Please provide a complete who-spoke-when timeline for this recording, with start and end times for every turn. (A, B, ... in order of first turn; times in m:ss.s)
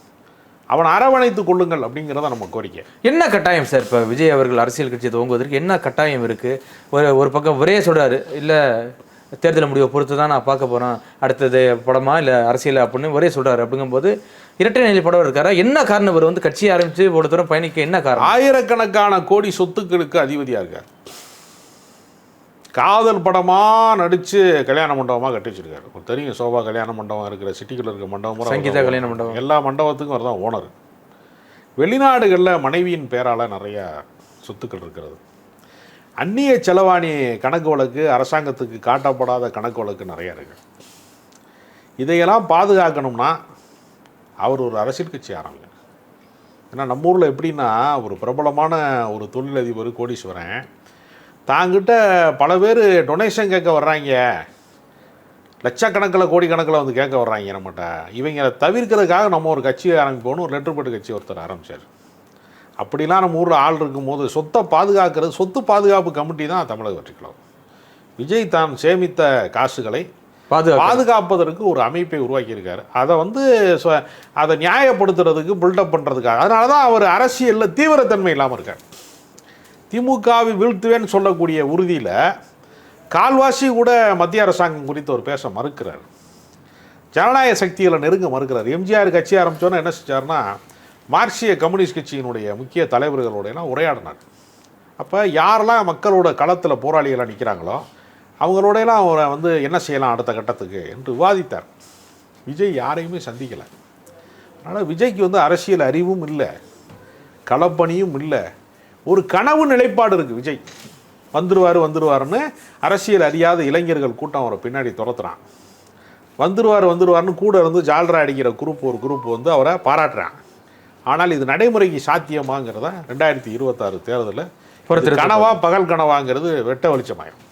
0:00.7-0:02.8 A
0:03.0-0:08.6 B
0:09.4-0:18.3 B
0:18.2-0:20.8 A
0:22.8-0:30.7 A
0:28.4-0:29.4 B
0:31.8-0:33.9 A
0:34.4-0:35.2 A
0:36.2-0:40.6 A
0:42.0-0:43.4 A
0:44.4-0:45.7 A
0:46.7-0:50.6 A
0:51.5-0:54.2 A
0:55.6-1:01.8 A
1:02.8-1:07.4 A
1:08.2-1:10.0 A
1:10.5-1:11.0 B
1:10.8-1:18.8 A
1:19.9-1:22.1 A
1:23.1-1:26.1 A
1:27.1-1:30.4 A
1:31.1-1:34.2 A
1:35.0-1:37.8 A
1:38.4-1:41.7 A
1:42.5-1:43.7 A
1:44.6-1:46.5 A
1:47.5-1:48.4 A
1:49.1-1:50.6 A
1:51.3-1:55.4 A
1:56.4-2:00.3 A
2:01.1-2:04.4 A
2:04.9-2:05.5 B
2:05.0-2:07.4 A